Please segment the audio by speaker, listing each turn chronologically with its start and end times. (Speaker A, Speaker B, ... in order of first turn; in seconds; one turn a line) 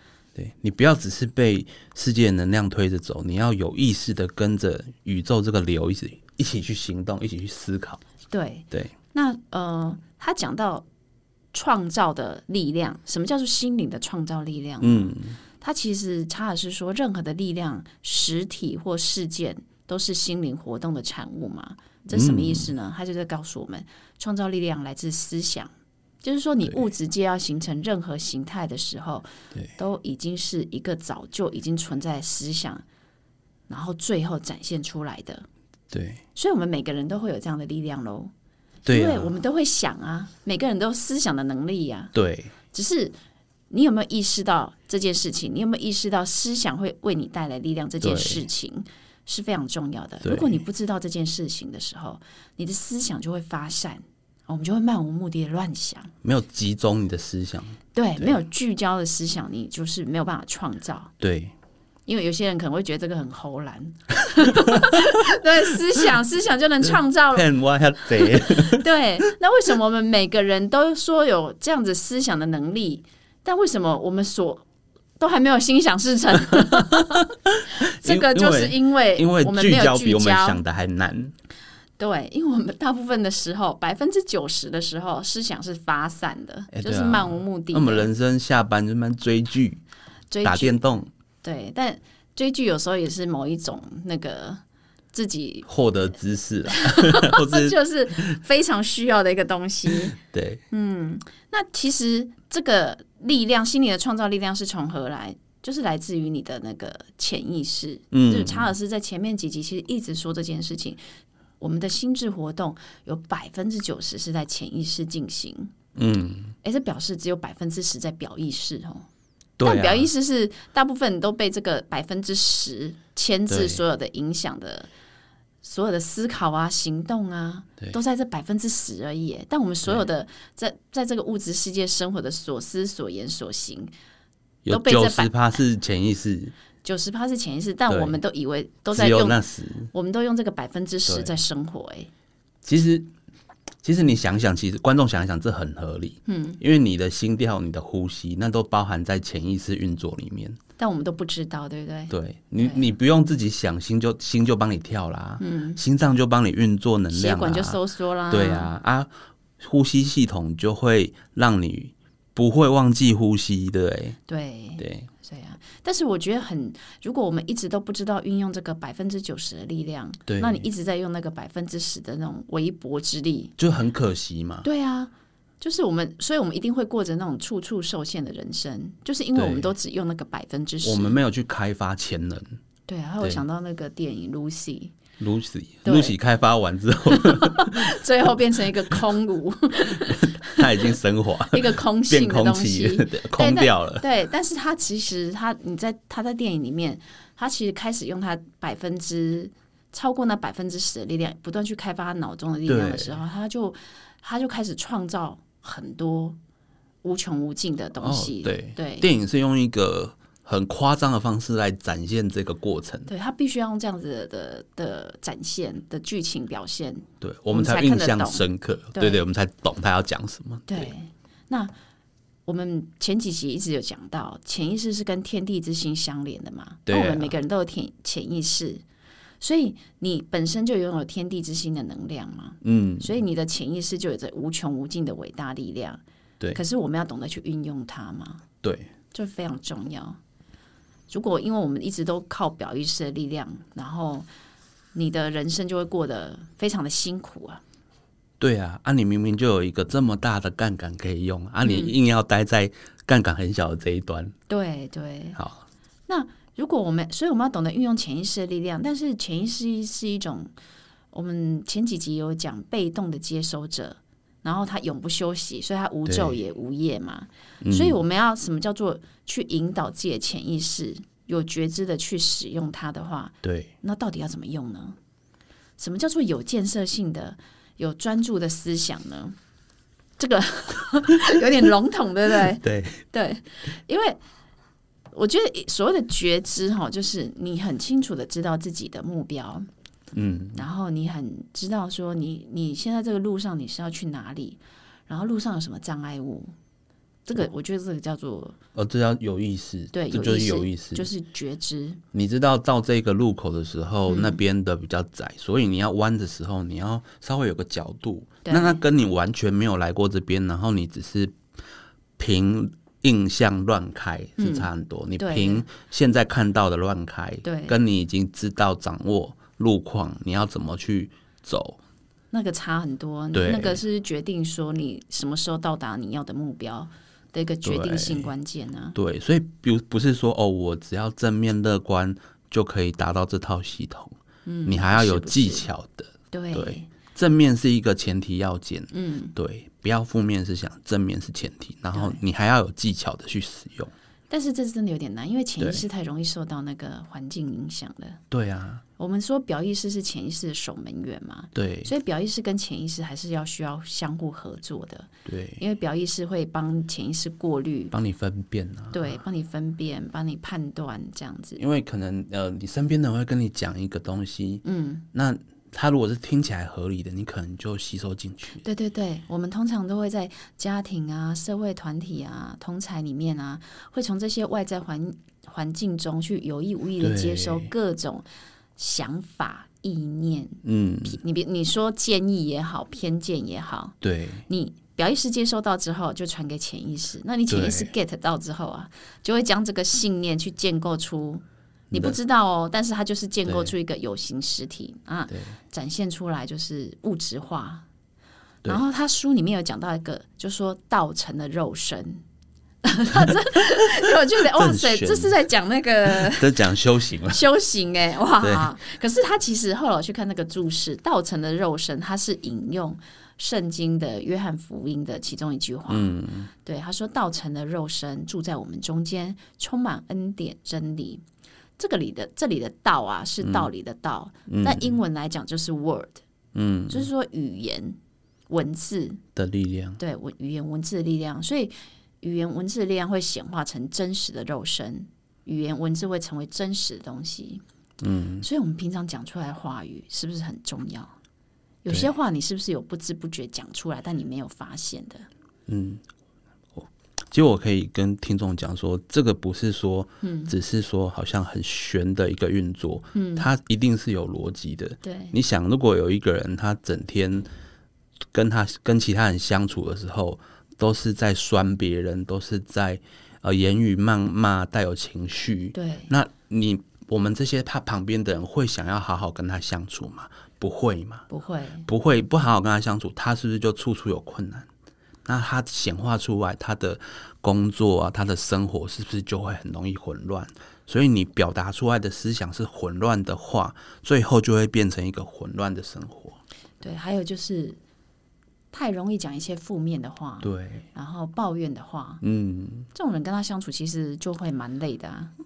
Speaker A: 0.3-8.0
Speaker B: 8.3-10.8
Speaker B: 11.5-25.7
Speaker A: 14.8-15.4
Speaker A: 22.1-22.7
Speaker B: 26.2-32.8
Speaker B: 33.7-35.5
Speaker A: 35.9-36.2
Speaker B: 36.4-38.3
Speaker A: 38.9-39.4
Speaker B: 38.9-42.1
Speaker A: 42.1-42.5
Speaker B: 42.7-43.1
Speaker B: 43.7-56.1
Speaker A: 48.0-48.5
Speaker A: 50.2-50.6
Speaker A: 56.2-58.4
Speaker B: 58.0-61.1
Speaker A: 61.2-61.5
Speaker B: 62.1-67.5
Speaker A: 64.6-65.1
Speaker A: 67.3-68.9
Speaker B: 68.2-74.7
Speaker B: 75.2-80.6
Speaker A: 76.6-81.3
Speaker B: 82.0-88.1
Speaker A: 86.7-89.8
Speaker B: 90.3-90.8
Speaker A: 90.4-91.1
Speaker B: 91.4-94.6
Speaker B: 95.1-95.7
Speaker A: 95.7-97.8
Speaker B: 96.7-100.2
Speaker A: 99.9-100.6
Speaker B: 100.7-111.0
Speaker A: 108.1-108.7
Speaker B: 111.6-115.8
Speaker A: 116.0-116.5
Speaker B: 116.6-119.1
Speaker A: 119.6-120.1
Speaker B: 119.6-124.9
Speaker A: 123.5-123.8
Speaker B: 125.6-133.9
Speaker A: 134.7-136.5
Speaker B: 134.7-135.5
Speaker B: 136.8-139.4
Speaker A: 137.9-138.2
Speaker A: 138.9-139.9
Speaker B: 139.9-142.1
Speaker A: 141.1-141.3
Speaker A: 142.6-143.1
Speaker A: 143.8-150.6
Speaker B: 146.3-146.6
Speaker B: 150.8-152.9
Speaker A: 152.1-157.8
Speaker B: 155.4-155.8
Speaker B: 157.1-158.7
Speaker A: 158.3-164.2
Speaker B: 164.3-173.5
Speaker A: 164.8-165.1
Speaker A: 170.3-170.7
Speaker A: 173.6-174.7
Speaker B: 174.6-181.2
Speaker A: 179.4-179.7
Speaker A: 180.8-182.6
Speaker B: 182.9-184.9
Speaker A: 185.2-187.9
Speaker B: 185.8-186.2
Speaker B: 187.1-190.9
Speaker A: 190.1-194.1
Speaker B: 191.5-206.4
Speaker A: 202.7-203.2
Speaker B: 207.0-209.1
Speaker A: 208.0-213.1
Speaker B: 213.1-219.2
Speaker A: 217.2-220.9
Speaker B: 220.7-221.7
Speaker B: 222.5-228.8
Speaker A: 226.9-227.3
Speaker B: 229.4-236.0
Speaker A: 232.6-233.2
Speaker B: 236.5-238.4
Speaker A: 238.6-238.9
Speaker B: 239.1-240.2
Speaker B: 241.1-244.3
Speaker B: 244.9-247.6
Speaker A: 248.4-254.3
Speaker B: 251.6-251.9
Speaker B: 254.5-255.4
Speaker A: 255.4-255.6
Speaker B: 256.1-260.5
Speaker B: 261.1-275.0
Speaker A: 266.1-266.4
Speaker A: 267.6-268.0
Speaker A: 273.4-273.7
Speaker B: 275.8-279.4
Speaker B: 280.2-284.2
Speaker A: 282.6-283.0
Speaker B: 285.1-289.7
Speaker A: 290.1-290.7
Speaker B: 290.6-296.5
Speaker B: 297.3-298.6
Speaker A: 298.8-301.1
Speaker B: 299.9-302.0
Speaker A: 302.1-311.4
Speaker B: 304.1-304.4
Speaker B: 308.4-308.8
Speaker A: 312.2-321.8
Speaker B: 314.4-315.7
Speaker B: 317.4-317.8
Speaker B: 322.3-329.0
Speaker A: 323.3-323.8
Speaker A: 327.6-328.3
Speaker A: 328.9-343.9
Speaker B: 334.5-335.7
Speaker B: 336.3-336.9
Speaker B: 338.9-339.3
Speaker B: 341.9-342.2
Speaker B: 344.3-348.2
Speaker A: 348.3-348.8
Speaker B: 349.0-357.9
Speaker A: 351.6-351.9
Speaker A: 355.3-355.6
Speaker A: 357.9-359.2
Speaker B: 358.9-361.6
Speaker A: 361.6-368.6
Speaker B: 364.6-365.1
Speaker B: 368.6-378.2
Speaker A: 377.0-377.7
Speaker B: 378.8-397.9
Speaker A: 380.6-381.2
Speaker A: 384.0-384.5
Speaker A: 387.5-387.9
Speaker A: 391.9-392.2
Speaker A: 393.5-393.7
Speaker B: 398.6-402.2
Speaker B: 402.8-406.6
Speaker A: 404.5-405.3
Speaker A: 406.1-407.4
Speaker B: 407.3-421.2
Speaker A: 408.4-408.7
Speaker A: 415.9-416.5
Speaker B: 421.8-426.2
Speaker A: 423.4-423.7
Speaker A: 424.5-424.9
Speaker A: 426.5-427.1
Speaker B: 426.9-428.0
Speaker B: 428.5-429.2
Speaker A: 429.4-430.0
Speaker B: 430.0-437.6
Speaker A: 438.0-438.5
Speaker B: 438.4-441.1
Speaker B: 441.8-445.3
Speaker A: 445.7-446.0
Speaker A: 446.8-457.5
Speaker B: 450.2-450.5
Speaker B: 453.1-453.5
Speaker B: 455.0-455.4
Speaker A: 458.3-471.3
Speaker B: 465.7-466.1
Speaker B: 471.3-471.9
Speaker A: 471.9-474.7
Speaker A: 475.3-486.4
Speaker B: 486.8-487.8
Speaker B: 488.7-492.2
Speaker A: 490.4-490.9
Speaker A: 492.2-492.9
Speaker B: 492.9-495.3